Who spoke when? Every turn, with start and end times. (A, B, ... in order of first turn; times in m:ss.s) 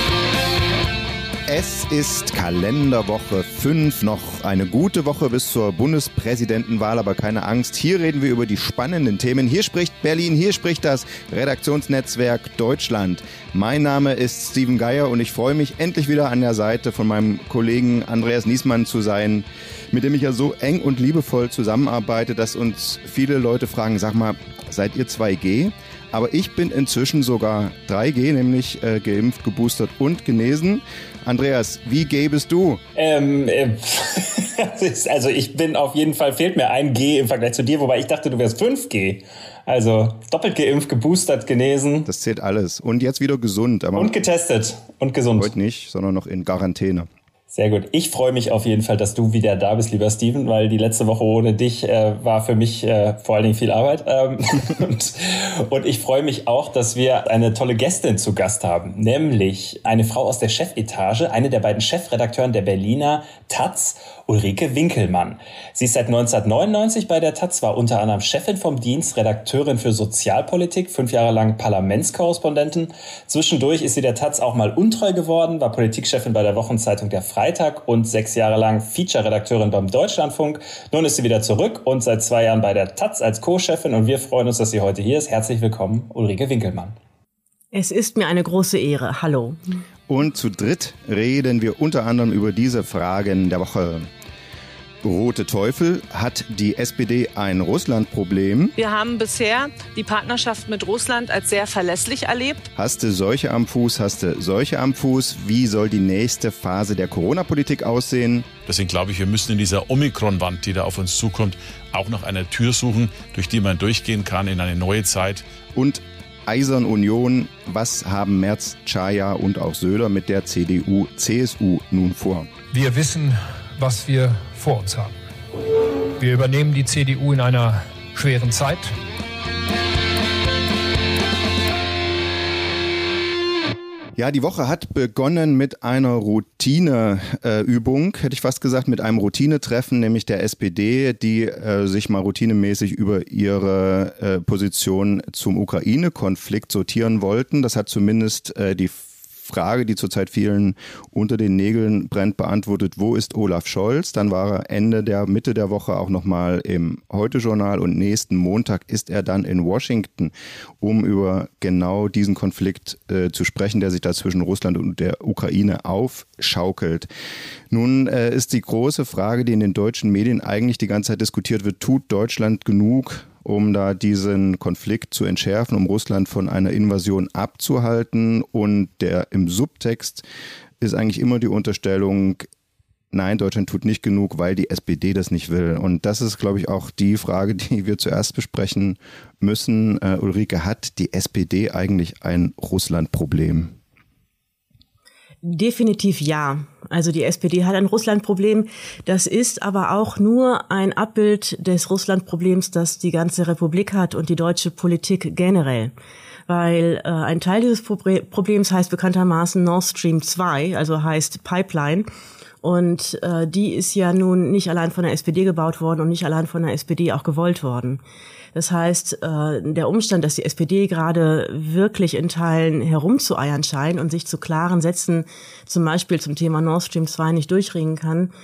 0:01.5-0:32.8 A
0:33.0-0:42.1 B
0:42.0-0:44.1 A
0:44.0-0:45.5 B
0:45.4-0:47.1 A
0:47.5-1:26.9 B
1:27.7-1:29.6 C
1:30.1-1:34.1 A
1:35.0-1:38.7 A
1:38.8-1:42.6 D
1:42.7-1:48.5 A
1:48.6-1:55.4 E
1:55.7-2:02.5 A
2:02.7-2:05.1 F
2:06.2-2:08.9 F
2:14.2-2:47.1 A
2:47.7-3:00.2 A
3:00.8-3:02.5 A
3:03.1-3:13.8 A
3:15.4-3:25.9 C
3:26.5-3:32.1 C
3:32.6-3:38.0 C
3:38.5-3:48.3 C